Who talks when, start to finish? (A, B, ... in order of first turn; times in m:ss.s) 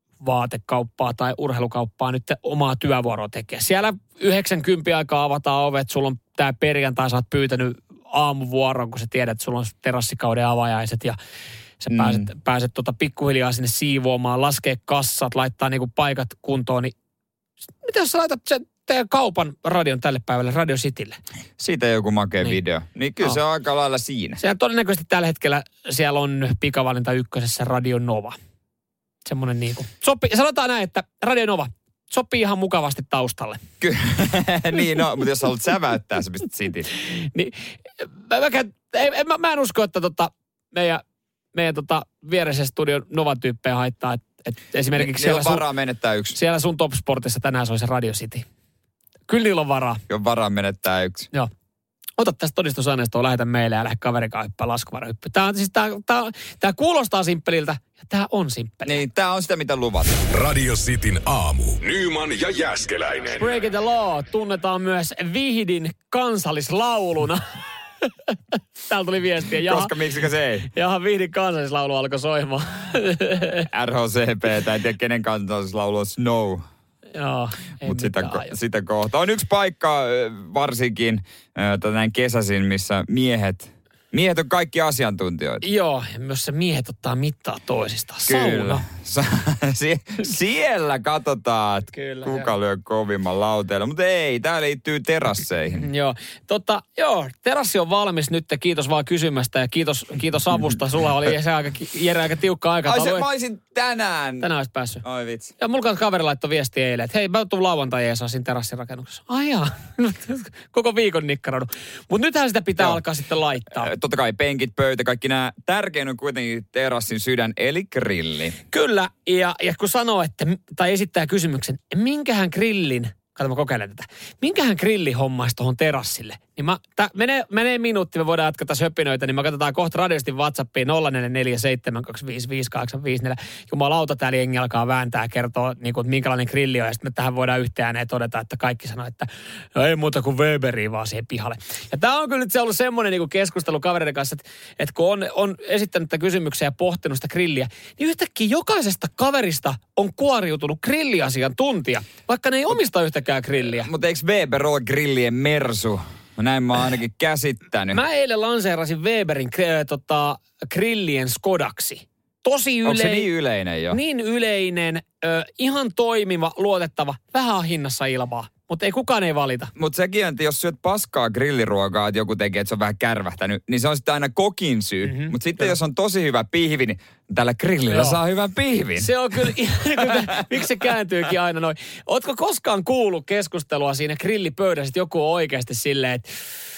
0:00.2-0:11.2 A
0:11.8-0:16.9 A
0:11.9-0:12.2 B
0:17.8-0:21.2 A
0:21.6-0:24.4 B
0:24.4-0:28.4 A
0:29.2-0:33.6 A
0:33.8-0:36.9 B
0:37.0-0:41.0 A
0:41.5-0:45.6 A
0:45.0-0:46.4 B
0:46.3-0:48.5 A
0:49.3-0:50.0 A
0:50.1-0:51.3 B
0:52.2-0:59.0 A
0:58.8-1:00.2 B
1:00.3-1:03.5 C
1:03.4-1:09.9 A
1:09.6-1:10.7 B
1:10.6-1:13.7 A
1:13.7-1:16.6 B
1:17.2-1:18.6 A
1:17.8-1:25.6 B
1:25.6-1:28.8 A
1:28.3-1:35.8 B
1:31.9-1:32.5 A
1:35.8-1:43.3 A
1:42.9-1:44.5 B
1:44.4-1:45.0 A
1:45.0-1:45.5 B
1:45.6-1:53.9 A
1:53.8-1:58.6 B
1:58.7-2:33.9 A
2:33.8-2:38.0 B
2:37.9-2:43.3 A
2:42.8-2:44.0 B
2:43.9-2:49.7 A
2:49.8-3:00.4 B
2:55.0-2:55.7 A
2:57.9-2:58.2 A
2:59.0-3:06.3 A